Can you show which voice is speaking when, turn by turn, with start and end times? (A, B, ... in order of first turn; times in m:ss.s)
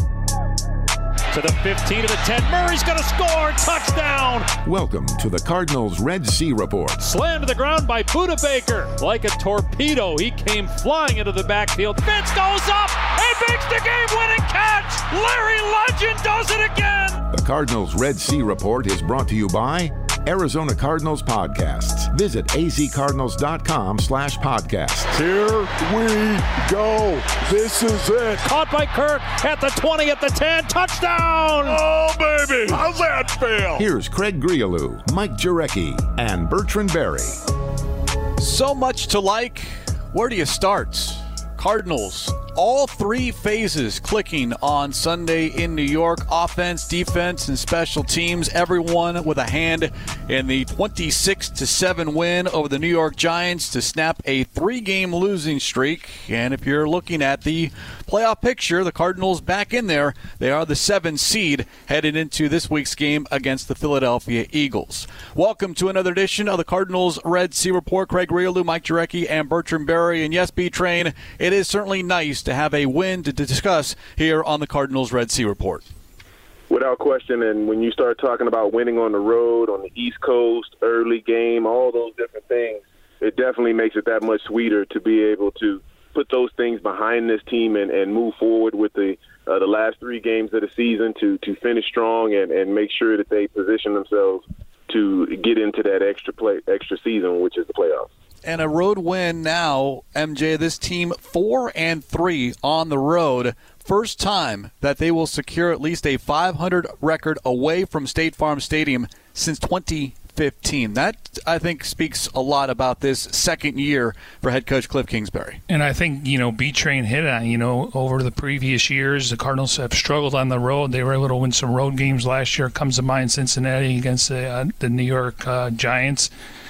0:01.3-0:04.5 A
0:04.6-0:07.0 B
0:07.0-0:17.2 A
0:17.3-0:25.1 B
0:25.1-0:28.4 C
0:28.4-0:31.8 A
0:31.6-0:33.8 C
0:33.8-0:37.4 B
0:38.4-1:15.8 D
1:16.7-1:38.1 E
1:38.4-1:55.6 D
1:55.7-2:06.3 F